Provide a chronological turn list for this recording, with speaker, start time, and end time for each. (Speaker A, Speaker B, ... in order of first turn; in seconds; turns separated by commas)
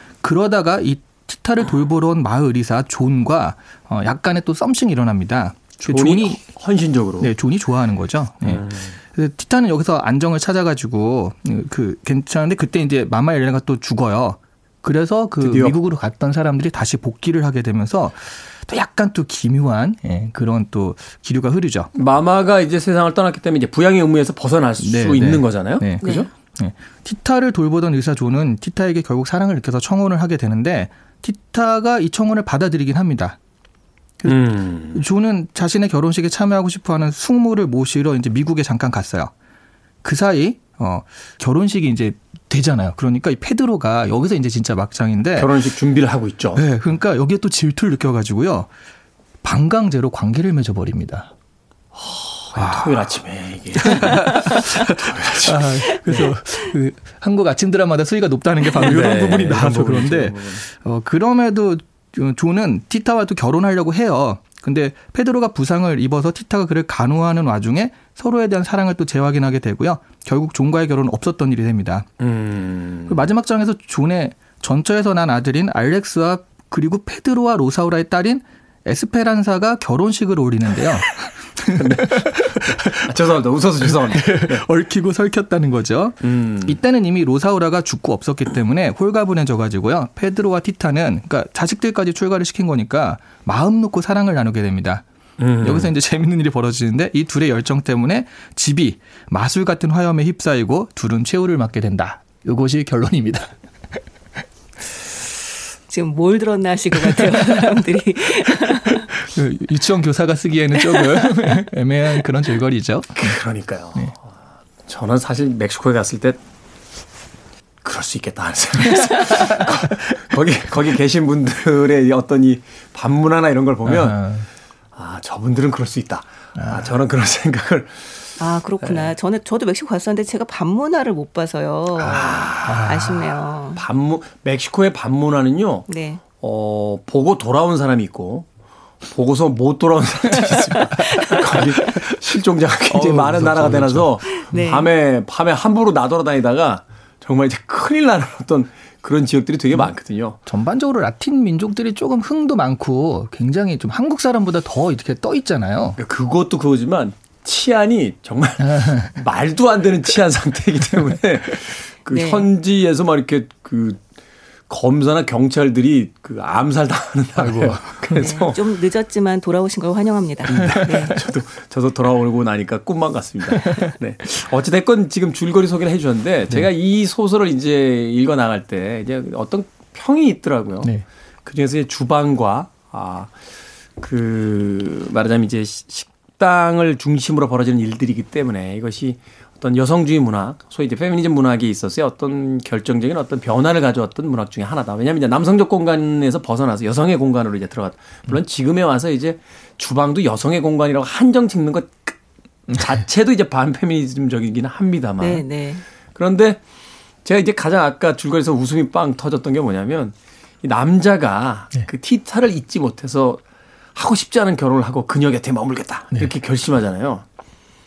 Speaker A: 0.2-6.4, Speaker B: 5.8-7.3, Speaker A: 7.2-21.9, Speaker B: 8.4-8.9, Speaker B: 15.4-15.7, Speaker B: 21.9-26.3, Speaker A: 24.8-33.4, Speaker C: 26.0-26.3, Speaker A: 34.2-39.3, Speaker B: 34.2-35.0, Speaker A: 40.0-45.5, Speaker B: 45.4-46.6, Speaker A: 46.5-48.7, Speaker A: 49.4-51.3, Speaker B: 51.9-56.3, Speaker A: 52.5-52.9, Speaker A: 53.7-72.1, Speaker B: 58.8-60.6, Speaker B: 72.2-73.3, Speaker A: 73.1-83.1, Speaker B: 81.7-84.6, Speaker A: 83.8-95.0, Speaker B: 86.2-86.8, Speaker B: 95.4-95.9, Speaker A: 95.6-103.5, Speaker C: 105.9-109.0, Speaker A: 109.1-113.4, Speaker B: 113.2-114.2, Speaker B: 114.8-116.4, Speaker B: 117.8-124.2, Speaker A: 119.4-119.7, Speaker A: 123.8-124.5, Speaker B: 124.9-129.1, Speaker A: 126.6-126.8, Speaker C: 128.4-133.8, Speaker B: 132.0-133.0, Speaker A: 132.6-133.2, Speaker B: 133.8-138.4, Speaker C: 135.9-136.2, Speaker B: 139.1-150.4, Speaker A: 142.9-144.1, Speaker C: 144.3-144.9, Speaker A: 150.4-156.0, Speaker B: 156.0-164.0, Speaker A: 158.7-159.1, Speaker C: 162.1-162.4, Speaker B: 164.7-168.6, Speaker A: 167.4-168.2, Speaker C: 168.2-171.2, Speaker B: 170.5-180.9, Speaker A: 173.6-173.9, Speaker B: 181.4-183.3, Speaker B: 184.0-202.2, Speaker B: 202.7-205.4, Speaker C: 205.2-205.8, Speaker B: 206.1-206.6, Speaker B: 207.2-213.4, Speaker B: 213.9-217.2